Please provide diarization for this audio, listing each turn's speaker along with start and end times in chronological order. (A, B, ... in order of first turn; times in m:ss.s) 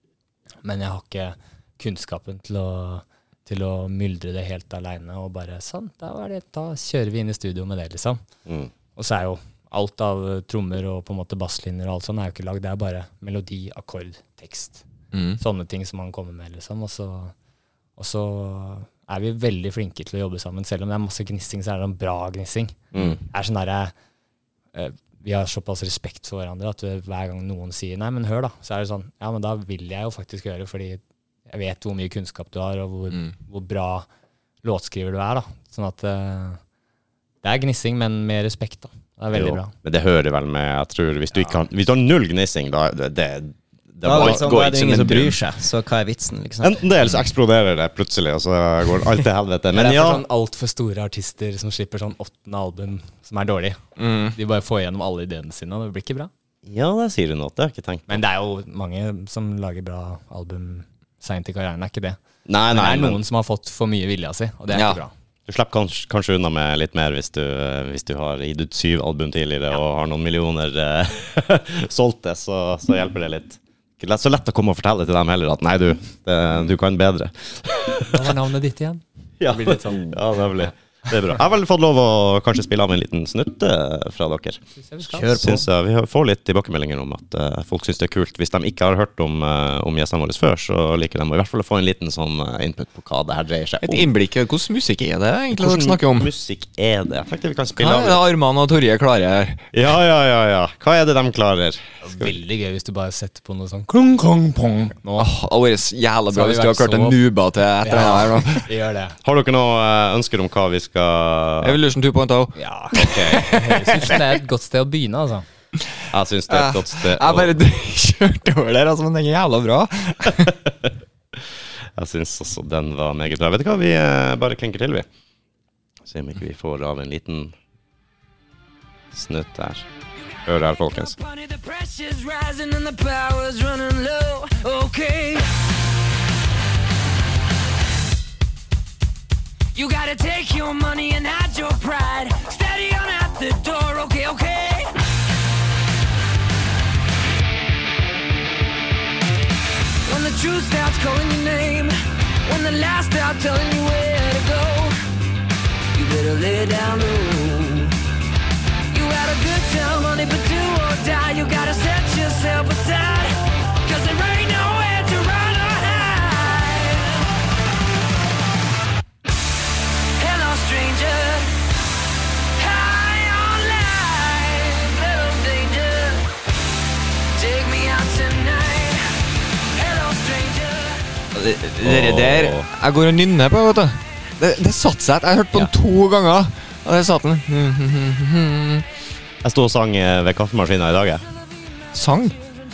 0:00.6-0:08.2 A
0:09.0-0:14.8 A
0:15.1-0:15.4 B
0:15.4-0:17.3 A
0:18.0-0:23.9 A
0:22.9-0:23.2 C
0:24.7-0:34.0 A
0:34.6-0:36.6 A
0:37.4-0:39.7 A
0:39.3-0:45.0 C
0:44.0-0:46.8 D
0:44.1-0:45.4 B
0:46.6-0:50.2 C
0:49.7-0:53.8 A
0:54.0-0:54.4 B
0:54.3-0:56.3 A
0:56.6-0:58.2 C
0:58.1-1:02.2 A
1:02.4-1:03.2 C
1:02.7-1:05.1 A
1:04.7-1:05.0 B
1:05.5-1:18.3 C
1:18.0-1:20.1 A
1:19.4-1:24.6 C
1:24.8-1:25.4 A
1:25.1-1:25.6 D
1:25.3-1:34.1 C
1:33.8-1:36.3 B
1:35.5-1:38.2 C
1:37.8-1:39.6 B
1:39.7-1:41.8 C
1:42.0-1:45.3 A
1:45.2-1:48.7 B
1:46.3-1:47.2 A
1:47.8-1:49.2 A
1:49.2-1:51.8 C
1:51.6-1:54.2 B
1:52.6-1:55.4 A
1:52.9-1:53.5 C
1:56.1-1:57.6 C
1:56.5-2:00.6 B
2:02.0-2:05.1 C
2:06.0-2:07.5 C
2:09.1-2:09.8 C
2:10.4-2:15.5 E
2:10.4-2:11.2 C
2:19.7-2:24.9 E
2:30.0-2:35.0 E
2:35.9-2:38.0 E
2:38.9-2:47.3 E
2:50.2-2:51.6 E
2:52.6-2:56.3 E
2:57.3-3:01.0 E
3:01.3-3:08.8 B
3:01.8-3:02.7 C
3:09.4-3:11.2 C
3:11.9-3:12.4 B